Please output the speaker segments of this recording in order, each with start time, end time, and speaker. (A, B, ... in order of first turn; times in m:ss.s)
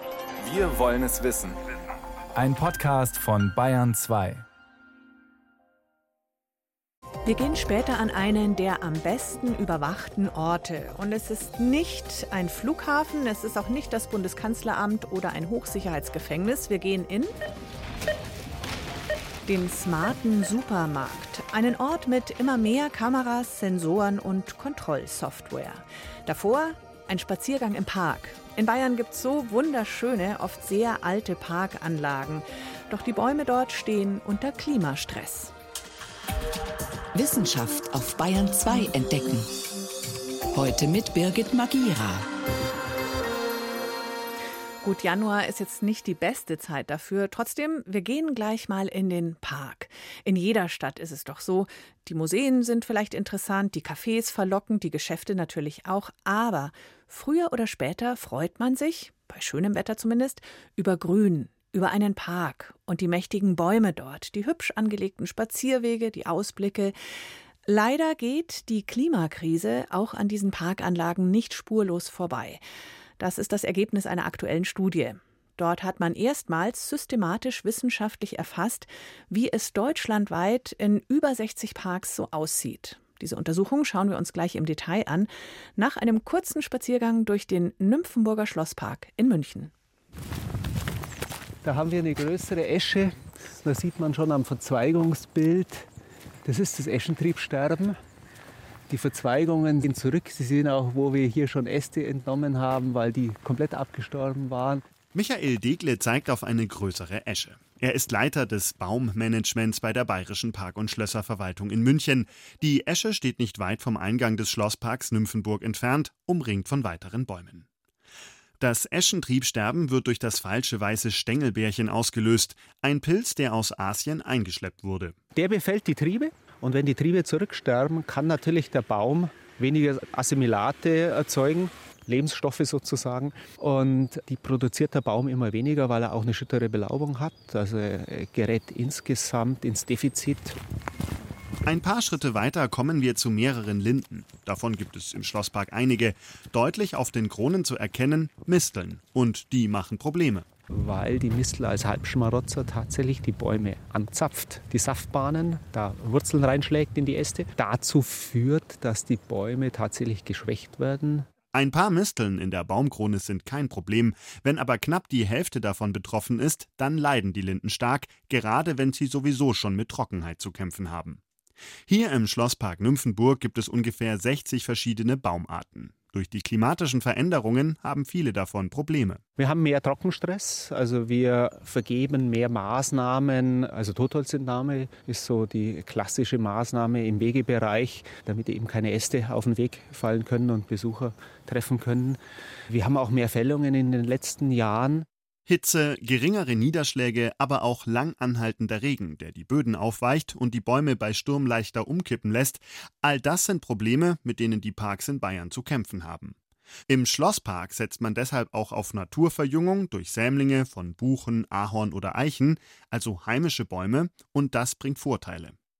0:00.4-0:01.8 A
0:02.3-0:04.4 A
0:07.2-0:17.3 B
0:19.4-0:35.5 B
0:37.1-0:39.5 C
0:40.5-0:42.3 C
0:44.8-1:06.9 B
1:07.6-1:12.6 B
1:13.2-1:29.7 B
1:31.6-1:35.9 D
1:36.4-1:38.0 D
1:38.9-1:44.8 D
1:45.1-1:57.7 E
1:58.6-2:05.2 E
2:05.3-2:20.6 D
2:21.6-2:30.5 E
2:30.7-2:41.3 D
2:41.5-2:51.2 E
2:51.9-2:59.2 E
2:59.4-3:15.0 D
3:15.5-3:26.4 E
3:26.9-3:35.6 E